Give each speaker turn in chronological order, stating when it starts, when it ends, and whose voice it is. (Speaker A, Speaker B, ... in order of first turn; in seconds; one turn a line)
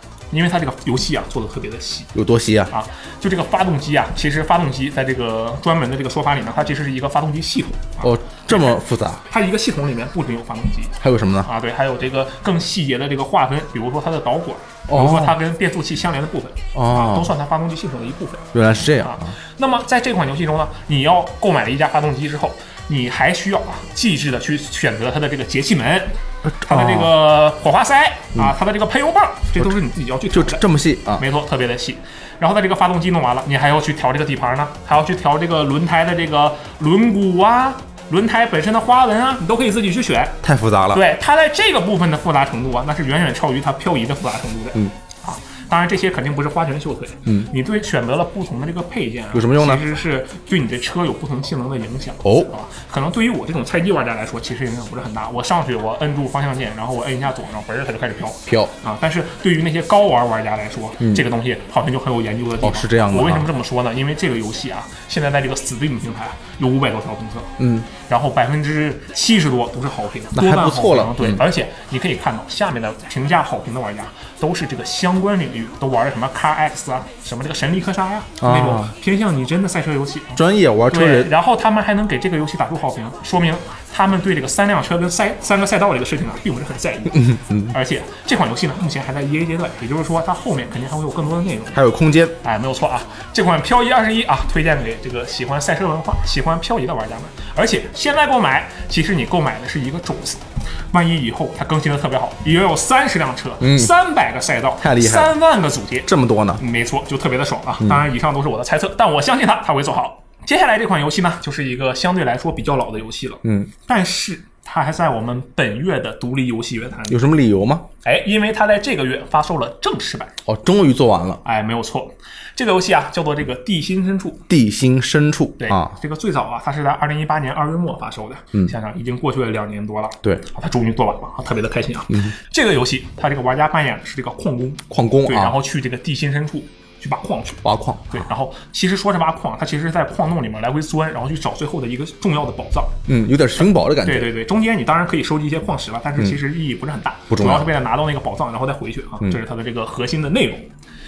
Speaker A: 0.3-2.1
Speaker B: 2.1-2.7
Speaker A: 2.7-8.8
Speaker B: 8.0-9.2
Speaker A: 9.3-18.5
Speaker B: 11.0-11.5
Speaker B: 14.9-15.4
Speaker B: 16.7-17.3
Speaker B: 18.5-19.3
Speaker A: 19.0-30.6
Speaker B: 26.4-27.1
Speaker B: 30.3-31.2
Speaker A: 31.2-40.4
Speaker B: 40.4-41.0
Speaker A: 40.9-80.4
Speaker B: 49.3-49.8
Speaker B: 52.2-52.5
Speaker B: 58.5-58.7
Speaker B: 61.0-61.2
Speaker B: 62.6-63.5
Speaker B: 67.6-67.9
Speaker B: 70.3-71.4
Speaker B: 78.4-78.9
Speaker B: 80.3-81.3
Speaker A: 80.9-91.8
Speaker B: 87.1-87.7
Speaker B: 91.7-92.3
Speaker A: 92.4-117.2
Speaker B: 103.6-103.9
Speaker B: 104.8-105.3
Speaker B: 106.1-106.6
Speaker B: 113.4-113.7
Speaker B: 117.1-117.9
Speaker A: 118.0-120.4
Speaker B: 120.5-121.4
Speaker A: 121.4-124.5
Speaker B: 124.5-125.9
Speaker A: 125.6-143.0
Speaker B: 134.9-135.6
Speaker B: 137.6-138.2
Speaker B: 143.1-144.3
Speaker A: 144.0-150.7
Speaker B: 147.3-147.7